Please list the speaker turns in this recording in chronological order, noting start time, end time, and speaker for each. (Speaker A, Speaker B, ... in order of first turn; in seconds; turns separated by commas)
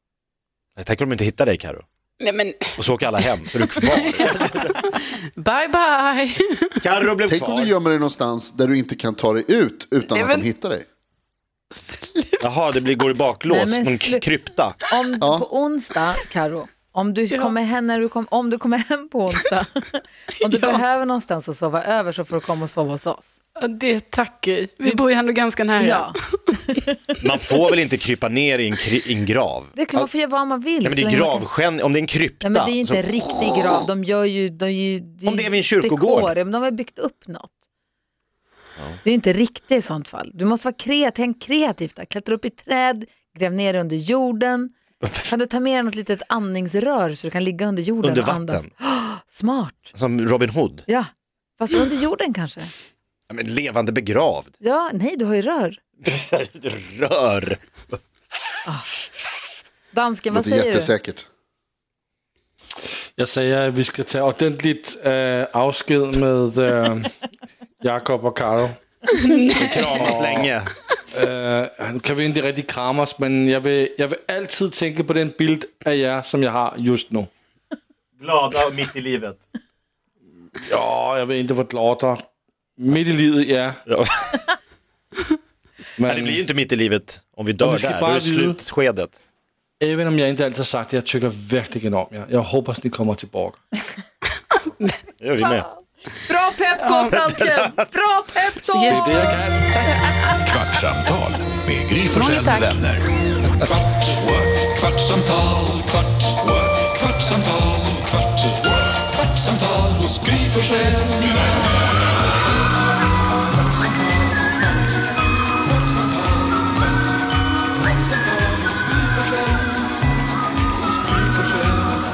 Speaker A: 0.8-1.8, Speaker B: 2.2-6.9, Speaker A: 2.8-4.9, Speaker A: 6.8-7.7, Speaker C: 7.3-10.8, Speaker B: 10.1-10.5, Speaker B: 11.7-12.6, Speaker A: 12.4-14.7, Speaker D: 13.5-14.3, Speaker D: 14.9-23.3, Speaker C: 15.2-15.5, Speaker B: 23.6-26.4, Speaker D: 25.8-27.0, Speaker A: 27.2-30.1, Speaker D: 29.8-31.4, Speaker A: 30.8-33.8, Speaker D: 32.4-37.5, Speaker A: 35.2-36.4, Speaker D: 39.0-44.7, Speaker A: 45.0-45.3, Speaker D: 45.2-49.9, Speaker A: 48.0-48.7, Speaker A: 49.9-50.9, Speaker D: 50.9-52.7, Speaker A: 53.3-54.5, Speaker D: 54.6-55.8, Speaker A: 56.0-58.6, Speaker D: 59.9-60.9, Speaker C: 60.3-61.2, Speaker E: 63.2-67.1, Speaker E: 67.8-68.8, Speaker B: 69.1-70.1, Speaker E: 69.5-70.5, Speaker A: 69.7-70.7, Speaker E: 71.1-77.3, Speaker A: 78.2-79.4, Speaker E: 80.5-82.2, Speaker E: 82.8-83.8, Speaker A: 83.9-84.5, Speaker E: 86.0-86.5, Speaker A: 86.0-89.2, Speaker E: 87.6-88.6, Speaker E: 89.8-93.6, Speaker A: 95.2-95.7, Speaker D: 96.2-99.2, Speaker B: 96.8-97.1, Speaker A: 97.1-97.9, Speaker B: 98.7-99.9, Speaker E: 98.9-99.7, Speaker F: 100.4-103.1, Speaker B: 102.1-102.8, Speaker F: 104.1-105.0, Speaker E: 105.5-105.8, Speaker E: 107.3-108.0, Speaker E: 109.8-111.3